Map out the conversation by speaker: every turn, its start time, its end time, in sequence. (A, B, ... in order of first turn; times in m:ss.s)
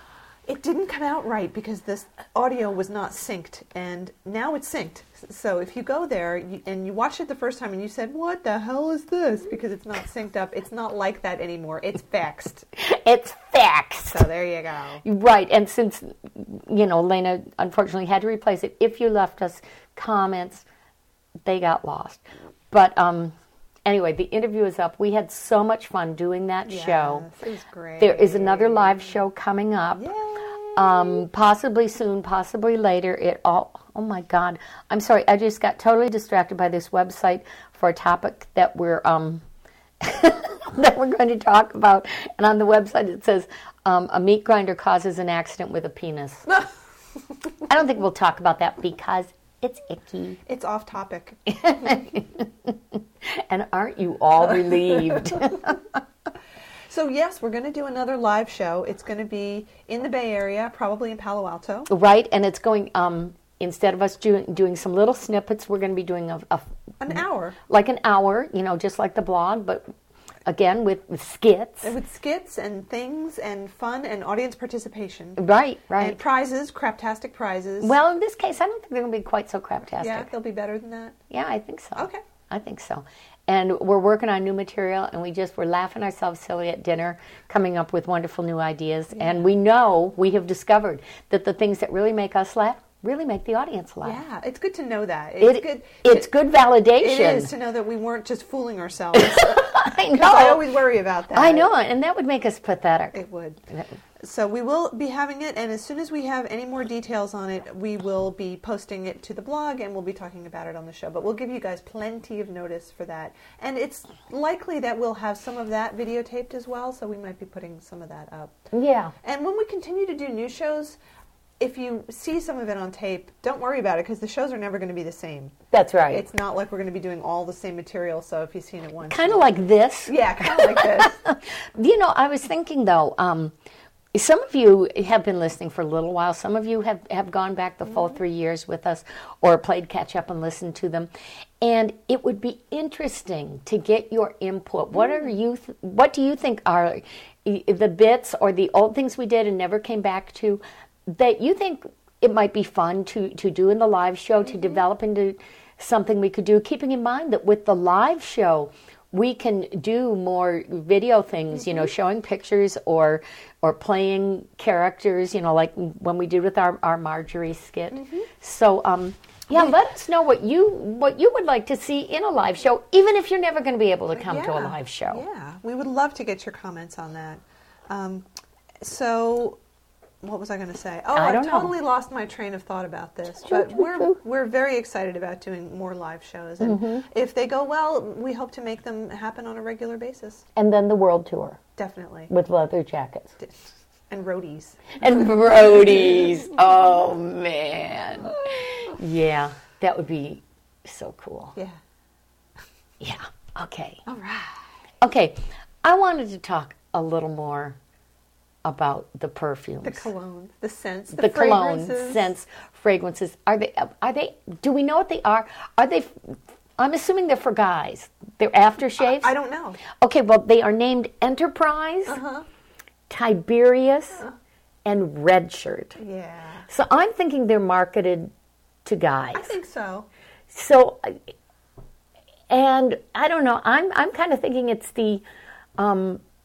0:00.5-0:12.7 A
0:12.8-0:14.3 B
0:14.1-0:15.0 A
0:15.0-0:20.6 B
0:21.4-0:23.4 B
0:23.9-0:27.3 B
0:26.7-0:29.2 A
0:28.0-0:30.1 B
0:30.0-0:31.2 A
0:30.8-0:39.4 B
0:40.0-0:46.6 B
0:47.7-0:50.4 B
0:50.5-0:51.4 A
0:51.5-0:55.8 B
0:54.5-0:55.4 A
0:56.9-1:01.9 A
1:01.9-1:09.9 B
1:07.0-1:07.6 A
1:10.5-1:12.0 B
1:11.8-1:15.4 A
1:15.4-1:16.2 B
1:16.0-1:18.0 A
1:17.8-1:20.3 B
1:20.0-1:21.2 A
1:21.3-1:34.2 B
1:29.1-1:29.5 A
1:34.0-1:36.3 A
1:35.4-1:37.5 B
1:37.0-1:41.7 A
1:39.2-1:40.6 B
1:41.3-1:44.0 B
1:43.1-1:43.6 A
1:44.2-1:58.6 A
1:58.7-1:59.1 B
1:59.2-2:01.0 A
2:01.6-2:05.6 A
2:05.7-2:06.2 B
2:06.1-2:09.5 A
2:09.1-2:13.6 B
2:10.1-2:11.2 A
2:14.1-2:21.1 B
2:21.6-2:55.2 B
2:25.0-2:25.3 A
2:47.9-2:48.3 A
2:49.5-2:49.8 A
2:54.1-2:58.3 A
2:58.8-2:59.6 A
3:00.2-3:10.5 A
3:01.2-3:01.7 B
3:03.5-3:04.2 B
3:06.6-3:07.1 B
3:10.6-3:11.6 B
3:11.8-3:12.3 A
3:12.3-3:13.4 B
3:14.1-3:16.1 A
3:15.0-3:21.6 B
3:23.0-3:24.0 B
3:24.1-3:24.6 A
3:25.0-3:27.8 B
3:28.6-3:30.1 B
3:29.8-3:32.3 A
3:31.1-3:39.3 B
3:39.0-3:39.8 A
3:40.0-3:42.2 B
3:42.1-3:42.5 A
3:43.1-3:44.3 B
3:44.8-3:46.0 B
3:46.0-3:46.7 A
3:46.7-3:48.3 B
3:48.8-3:49.5 B
3:49.4-3:50.1 A
3:50.5-3:51.3 B
3:52.5-3:55.2 B
3:55.8-3:56.2 B